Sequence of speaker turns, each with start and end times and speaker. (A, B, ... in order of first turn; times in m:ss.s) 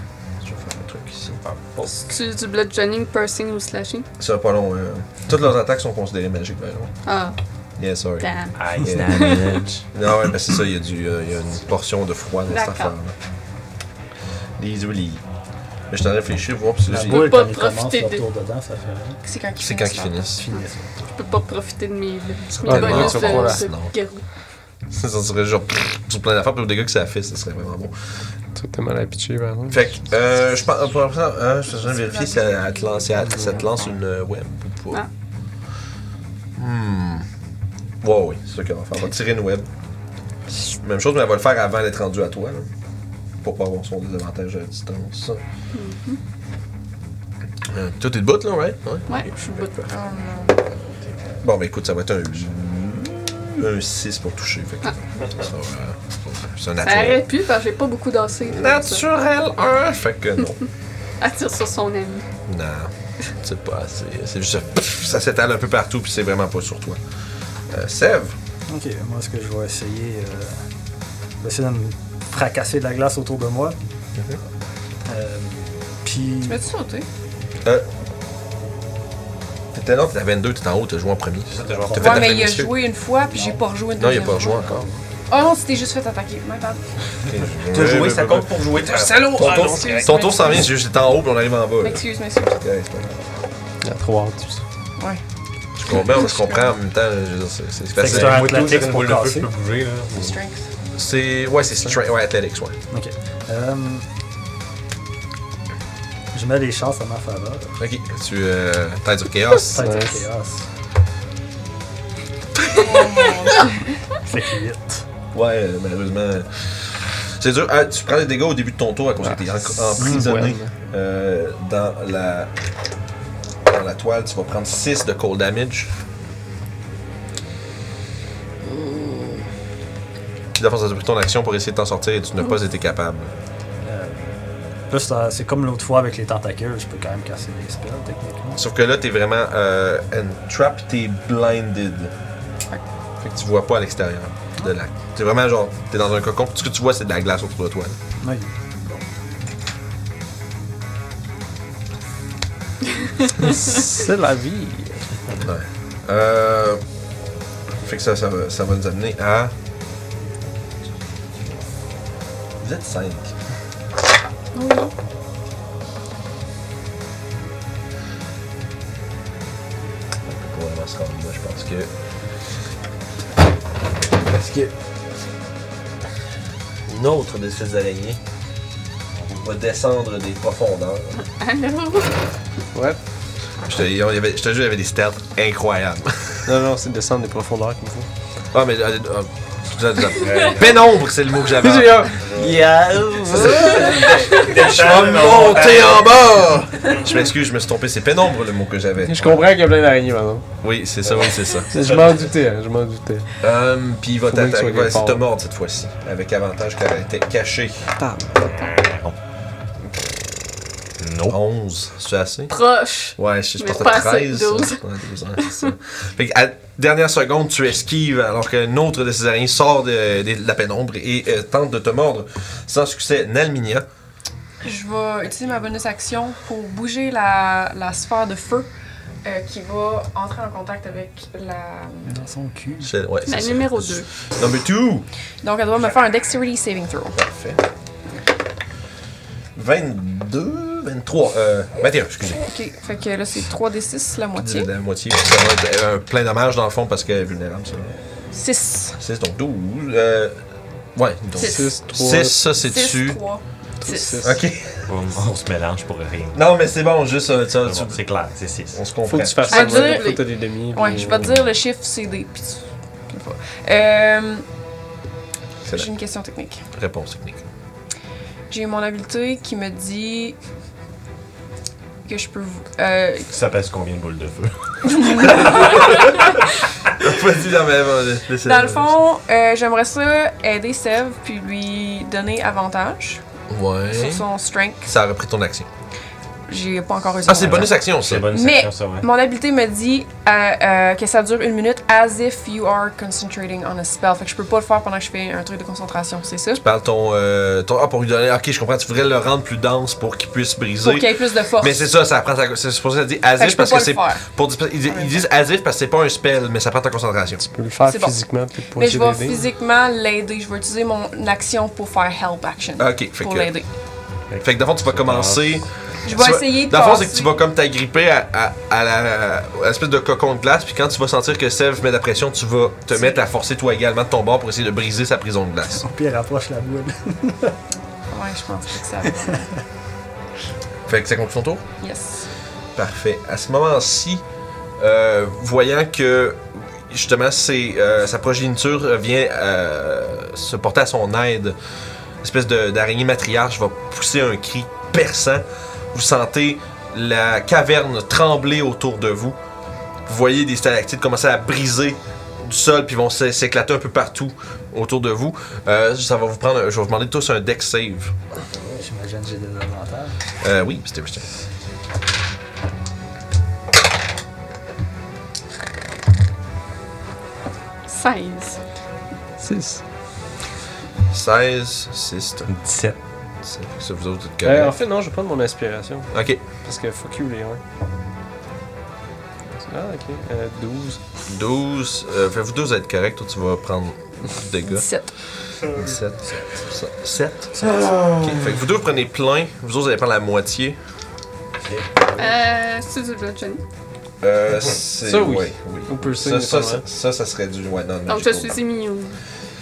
0:00.4-0:01.4 A
0:01.4-0:02.0 B
0:02.0-0:04.1 C
0:04.2-0:06.9 A
0:07.0-0:07.4 C
0:07.8-0:09.4 A
0:08.2-0:09.6 C
0:08.5-0:09.9 B
0:09.9-0:13.1 A
0:12.5-0:12.9 C
0:14.6-0:15.2 A
0:15.9-0:17.3 A
0:16.8-0:19.2 D
0:16.9-0:18.2 C
0:19.2-0:20.3 E
0:19.6-0:20.5 A
0:20.4-0:21.0 D
0:20.5-0:24.2 C
0:22.6-0:23.7 F
0:22.6-0:23.9 A
0:24.9-0:27.9 A
0:28.5-0:29.9 F
0:29.7-0:35.0 A
0:31.7-0:33.7 E
0:36.6-0:37.3 A
0:38.0-0:39.7 A
0:40.8-0:42.7 A
0:43.4-0:45.4 A
0:45.7-0:46.2 C
0:47.7-0:49.9 A
0:49.1-0:49.7 C
0:49.9-0:50.6 E
0:51.4-0:57.2 A
0:56.8-0:59.0 C
0:58.4-1:00.6 A
1:01.2-1:02.2 C
1:02.5-1:07.0 A
1:07.7-1:08.4 A
1:08.7-1:10.6 D
1:11.4-1:13.8 D
1:15.0-1:16.6 D
1:16.4-1:17.0 E
1:19.7-1:22.8 A
1:21.4-1:22.4 B
1:21.7-1:22.3 D
1:21.9-1:26.8 E
1:23.2-1:23.6 D
1:24.0-1:24.9 A
1:24.7-1:25.0 D
1:27.2-1:28.6 A
1:27.7-1:29.9 B
1:28.7-1:30.1 F
1:29.3-1:32.0 A
1:29.4-1:30.7 E
1:31.8-1:32.6 E
1:32.6-1:33.1 A
1:33.8-1:34.6 F
1:35.8-1:38.5 A
1:36.1-1:36.7 E
1:38.0-1:39.5 D
1:38.0-1:40.4 B
1:40.1-1:40.6 E
1:41.0-1:42.7 A
1:42.9-1:44.1 D
1:46.3-1:47.8 D
1:47.8-1:49.8 A
1:49.7-1:50.6 D
1:49.7-1:50.2 F
1:52.7-1:53.9 E
1:54.2-1:55.0 D
1:55.3-2:02.5 A
1:59.2-2:00.7 F
2:00.0-2:00.3 D
2:03.6-2:05.9 A
2:10.5-2:13.3 A
2:13.8-2:14.4 D
2:14.9-2:18.6 D
2:18.6-2:22.1 A
2:23.2-2:28.0 A
2:28.2-2:28.5 D
2:33.4-2:35.1 F
2:35.4-2:36.8 A
2:37.8-2:39.5 A
2:42.6-2:43.3 A
2:44.5-2:44.9 C
2:50.3-2:51.9 A
2:54.3-2:54.7 D
2:56.9-2:58.2 A
2:59.4-3:01.2 A
3:01.4-3:02.1 C
3:02.7-3:03.0 F
3:03.6-3:06.5 A
3:06.4-3:08.1 F
3:08.5-3:12.1 A
3:10.2-3:10.8 B
3:11.6-3:14.3 F
3:12.1-3:12.7 B
3:13.4-3:16.2 B
3:14.4-3:19.5 A
3:16.7-3:17.2 B
3:19.0-3:20.4 F
3:20.6-3:21.7 A
3:21.0-3:22.3 B
3:21.7-3:23.3 F
3:23.4-3:27.9 A
3:24.2-3:25.3 F
3:28.0-3:28.7 F
3:28.4-3:29.1 B
3:31.0-3:31.4 B
3:31.3-3:32.6 A
3:32.5-3:34.8 C
3:33.1-3:43.8 A
3:35.4-3:35.7 C
3:44.6-3:48.7 E
3:49.2-3:52.2 E
3:52.0-3:52.9 D
3:52.8-3:55.1 A
3:53.2-3:54.1 C
3:55.4-3:57.2 E
3:57.1-3:57.6 A
3:59.5-4:02.4 A
4:02.4-4:04.7 E
4:04.4-4:07.9 A
4:08.3-4:09.0 E
4:09.0-4:10.4 A
4:11.0-4:13.2 A
4:11.4-4:11.8 E
4:11.4-4:12.5 F
4:12.6-4:14.3 E
4:13.8-4:14.4 F
4:14.2-4:14.9 A
4:14.9-4:16.4 B
4:16.3-4:18.0 A
4:17.5-4:18.8 B
4:18.7-4:19.8 A
4:19.0-4:21.3 F
4:19.5-4:24.4 E
4:25.6-4:25.9 A
4:25.7-4:26.6 E
4:26.7-4:27.4 A
4:28.5-4:30.4 E
4:32.0-4:33.3 E
4:33.3-4:35.9 B
4:35.0-4:35.6 E
4:37.0-4:38.9 A
4:38.4-4:43.2 E
4:43.5-4:44.2 A
4:43.9-4:44.9 E
4:44.8-4:45.7 A
4:46.5-4:56.6 E
4:47.2-4:48.3 A
4:47.4-4:49.1 B
4:56.6-5:07.5 A
5:00.8-5:01.9 E
5:03.4-5:04.2 E
5:04.9-5:05.1 E
5:07.4-5:09.4 F
5:07.8-5:13.7 E
5:12.8-5:13.5 A
5:14.3-5:15.9 B
5:14.4-5:25.8 A
5:16.0-5:17.4 E
5:22.9-5:23.2 E
5:25.8-5:27.6 D
5:28.1-5:29.5 E
5:30.9-5:31.6 A
5:31.8-5:32.3 E
5:32.8-5:34.2 A
5:34.8-5:41.6 A
5:42.2-5:49.4 A
5:50.0-5:58.2 A
5:58.8-6:00.2 D
6:00.4-6:01.3 A
6:07.9-6:08.6 C
6:09.4-6:09.8 F
6:11.1-6:12.5 A
6:12.5-6:13.0 B
6:13.4-6:14.8 A
6:14.4-6:17.6 F
6:16.1-6:16.4 A
6:19.6-6:21.0 F
6:21.3-6:30.8 A
6:24.7-6:25.1 E
6:27.7-6:28.0 B
6:31.6-6:32.3 B
6:32.2-6:33.6 C
6:34.2-6:38.6 A
6:35.0-6:36.8 F
6:38.1-6:39.2 C